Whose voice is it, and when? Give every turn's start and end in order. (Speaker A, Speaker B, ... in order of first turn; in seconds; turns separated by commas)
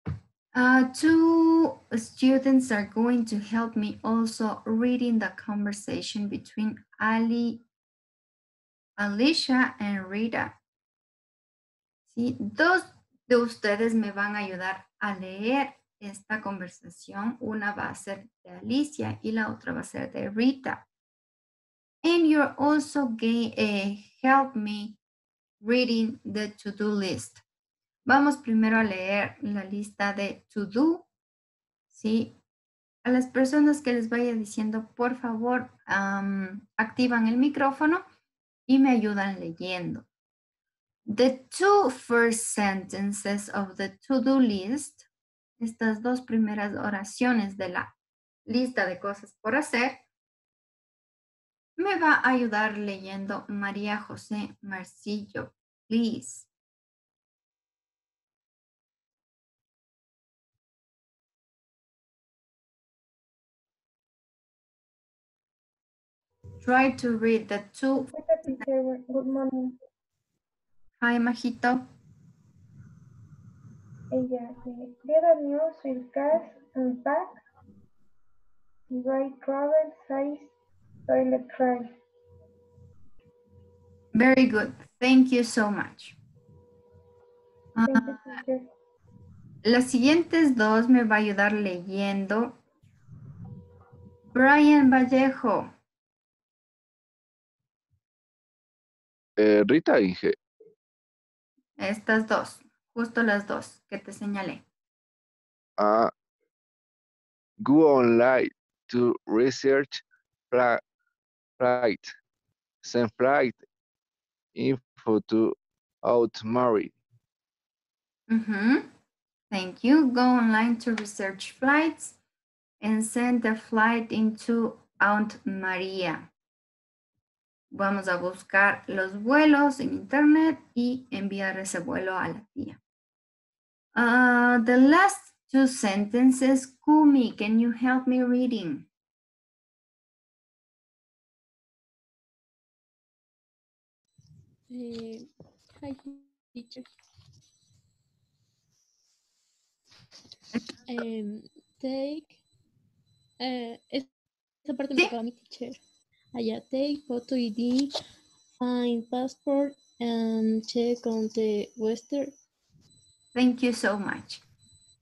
Speaker A: 0.5-7.6, Speaker A: 9.0-10.6, Speaker A: 12.1-20.8, Speaker A: 22.0-25.0, Speaker A: 25.6-27.4, Speaker A: 28.1-31.1, Speaker A: 31.9-32.3, Speaker A: 33.0-38.0, Speaker A: 38.7-40.1, Speaker A: 41.1-45.1, Speaker A: 45.6-47.9, Speaker A: 48.5-50.0, Speaker A: 51.8-56.5, Speaker A: 66.6-68.1, Speaker B: 68.1-69.8, Speaker A: 71.0-71.8, Speaker B: 74.1-77.4, Speaker B: 78.9-80.5, Speaker B: 81.1-81.9, Speaker A: 84.1-86.2, Speaker A: 87.8-88.4, Speaker B: 87.8-88.6, Speaker A: 89.6-92.6, Speaker A: 94.3-95.7, Speaker C: 99.4-100.4, Speaker A: 101.8-104.6, Speaker C: 105.8-106.1, Speaker C: 107.6-110.8, Speaker C: 111.6-112.1, Speaker C: 112.8-113.6, Speaker C: 114.5-116.9, Speaker A: 118.3-118.9, Speaker A: 119.5-122.2, Speaker A: 122.8-126.3, Speaker A: 127.7-132.8, Speaker A: 133.9-138.9, Speaker D: 150.9-151.3, Speaker D: 153.5-153.8, Speaker D: 154.7-155.4, Speaker D: 156.4-157.4, Speaker D: 158.6-159.2, Speaker D: 160.0-160.8, Speaker A: 163.3-164.4